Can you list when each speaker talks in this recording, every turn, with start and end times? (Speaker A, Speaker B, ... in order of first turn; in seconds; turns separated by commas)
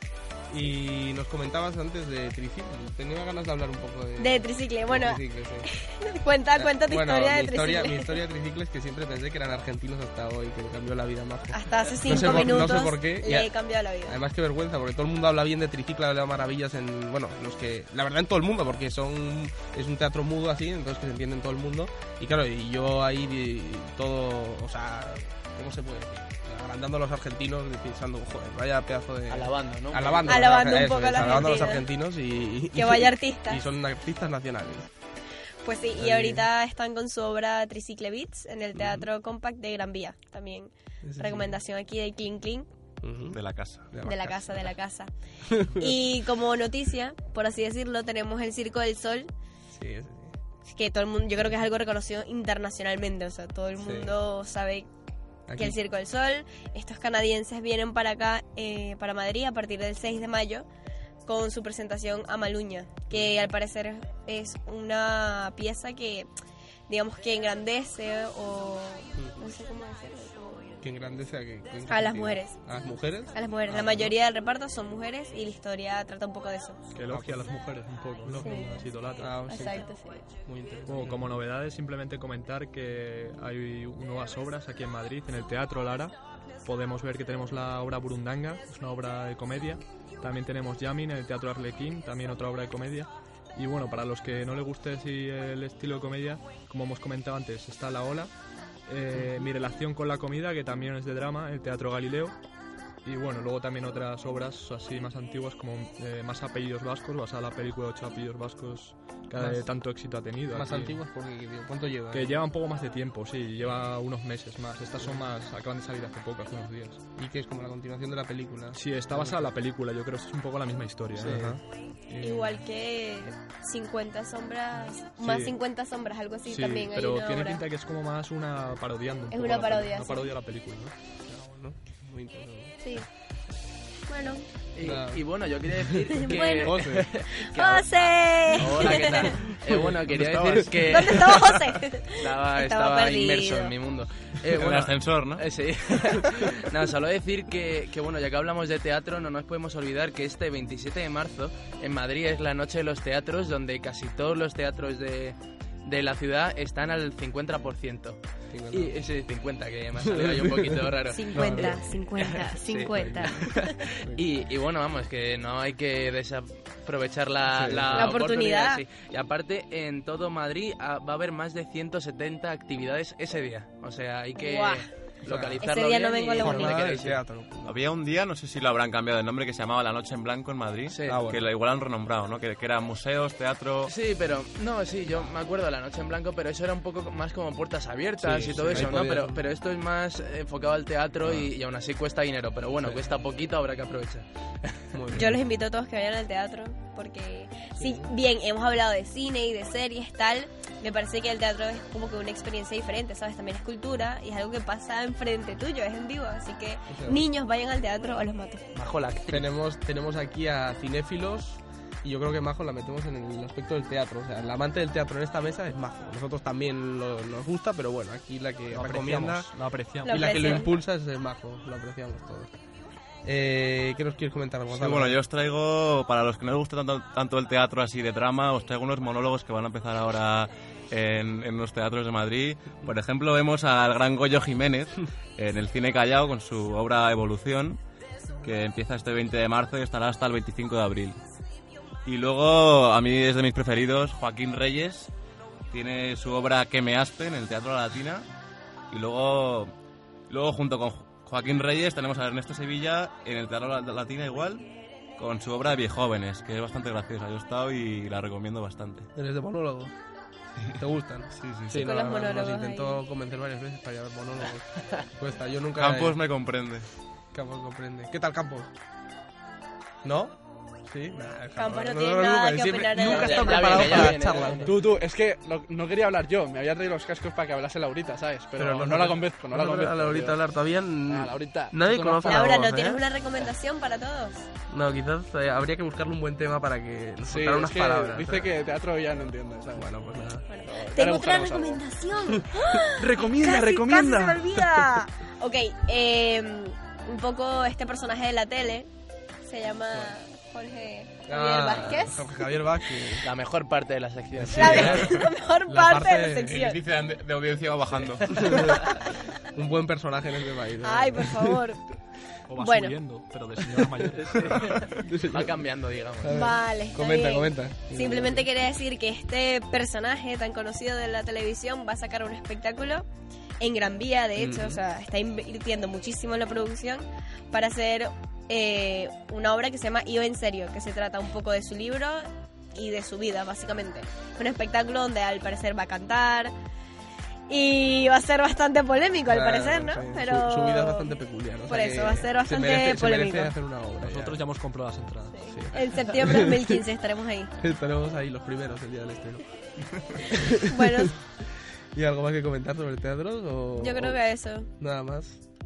Speaker A: 0.5-5.7, Speaker B: 4.2-5.2, Speaker B: 5.7-8.1, Speaker A: 6.6-13.5, Speaker B: 11.5-14.2, Speaker A: 14.1-34.9, Speaker C: 29.3-30.8, Speaker B: 30.2-31.9, Speaker B: 32.8-33.6, Speaker B: 35.6-42.7, Speaker A: 36.0-36.5, Speaker A: 38.7-39.1, Speaker A: 41.0-41.6, Speaker A: 43.0-44.7, Speaker D: 43.3-43.9, Speaker B: 44.0-45.1, Speaker A: 45.5-46.0, Speaker B: 45.8-49.3, Speaker A: 49.7-50.4, Speaker B: 50.7-54.9, Speaker A: 53.8-54.2, Speaker A: 55.5-55.8, Speaker B: 55.6-60.7, Speaker B: 61.3-66.3, Speaker A: 63.1-63.5, Speaker B: 66.9-70.8, Speaker A: 70.8-74.2, Speaker B: 71.9-72.5, Speaker B: 73.3-76.8, Speaker E: 77.0-79.6, Speaker A: 77.1-77.5, Speaker A: 78.2-79.9, Speaker B: 78.4-78.8, Speaker B: 79.5-80.3, Speaker A: 80.4-81.2, Speaker E: 80.9-98.3, Speaker E: 98.9-102.4, Speaker E: 103.0-111.0, Speaker A: 109.4-109.7, Speaker A: 110.5-112.4, Speaker E: 112.1-117.0, Speaker A: 117.2-119.4, Speaker E: 118.7-122.6, Speaker A: 121.2-121.6, Speaker B: 122.2-127.6, Speaker E: 125.2-125.5, Speaker E: 126.5-130.9, Speaker B: 129.3-130.3, Speaker A: 131.2-132.8, Speaker B: 134.1-134.5, Speaker C: 134.8-138.0, Speaker A: 134.8-135.2, Speaker A: 136.2-137.1, Speaker B: 136.2-139.4, Speaker C: 138.5-141.6, Speaker A: 138.7-141.3, Speaker B: 140.9-143.7, Speaker C: 142.2-158.2, Speaker D: 144.5-145.5, Speaker A: 158.5-159.0, Speaker C: 158.7-177.2, Speaker A: 160.0-161.8, Speaker B: 161.1-163.8, Speaker A: 163.0-163.5, Speaker A: 167.5-168.2, Speaker B: 168.0-168.8, Speaker B: 174.4-174.9, Speaker A: 175.2-175.6, Speaker B: 175.6-177.0, Speaker A: 176.4-177.8, Speaker D: 177.7-183.9, Speaker C: 180.9-181.3, Speaker A: 181.1-181.4, Speaker C: 183.9-194.9, Speaker A: 188.2-189.4, Speaker A: 191.2-191.5, Speaker A: 194.9-195.4, Speaker B: 195.1-208.7, Speaker A: 197.8-198.1, Speaker A: 206.9-207.2, Speaker C: 208.7-209.4, Speaker A: 209.3-219.5, Speaker E: 218.7-220.6, Speaker B: 220.1-220.7, Speaker A: 220.1-222.5, Speaker A: 223.2-225.2, Speaker D: 224.7-237.8, Speaker D: 238.4-241.2, Speaker D: 242.1-245.1, Speaker D: 245.7-248.3, Speaker D: 248.9-249.7, Speaker D: 250.3-254.7, Speaker D: 255.2-259.1, Speaker A: 259.2-259.9, Speaker A: 260.8-266.2, Speaker D: 261.3-262.0, Speaker B: 261.8-263.0, Speaker D: 265.8-266.9, Speaker A: 267.3-268.7, Speaker A: 270.0-274.8, Speaker B: 271.6-274.1, Speaker C: 273.0-274.7, Speaker F: 274.6-280.4, Speaker A: 278.6-283.0, Speaker F: 281.1-282.6, Speaker B: 282.2-284.4, Speaker A: 284.7-288.5, Speaker F: 287.3-289.9, Speaker A: 289.8-290.5, Speaker B: 290.5-298.9, Speaker F: 290.6-291.8, Speaker F: 292.9-295.0, Speaker B: 299.4-303.1, Speaker A: 301.3-303.3, Speaker C: 303.2-305.1, Speaker A: 304.4-305.1, Speaker B: 304.6-306.8, Speaker A: 305.7-306.6, Speaker D: 306.5-308.7, Speaker A: 308.4-308.7, Speaker A: 309.5-311.6, Speaker B: 310.8-311.8, Speaker E: 312.5-314.8, Speaker B: 312.6-312.9, Speaker C: 314.3-316.3, Speaker A: 314.5-315.6, Speaker A: 316.2-318.5, Speaker B: 316.3-323.1, Speaker B: 323.6-336.5, Speaker A: 324.4-324.8, Speaker B: 337.5-341.1, Speaker A: 339.3-344.4, Speaker B: 341.7-343.5, Speaker E: 344.0-345.4, Speaker B: 345.4-347.5, Speaker A: 345.5-346.8, Speaker A: 347.6-349.4, Speaker A: 350.3-354.2, Speaker B: 350.7-351.2, Speaker B: 353.8-354.7, Speaker A: 354.8-355.4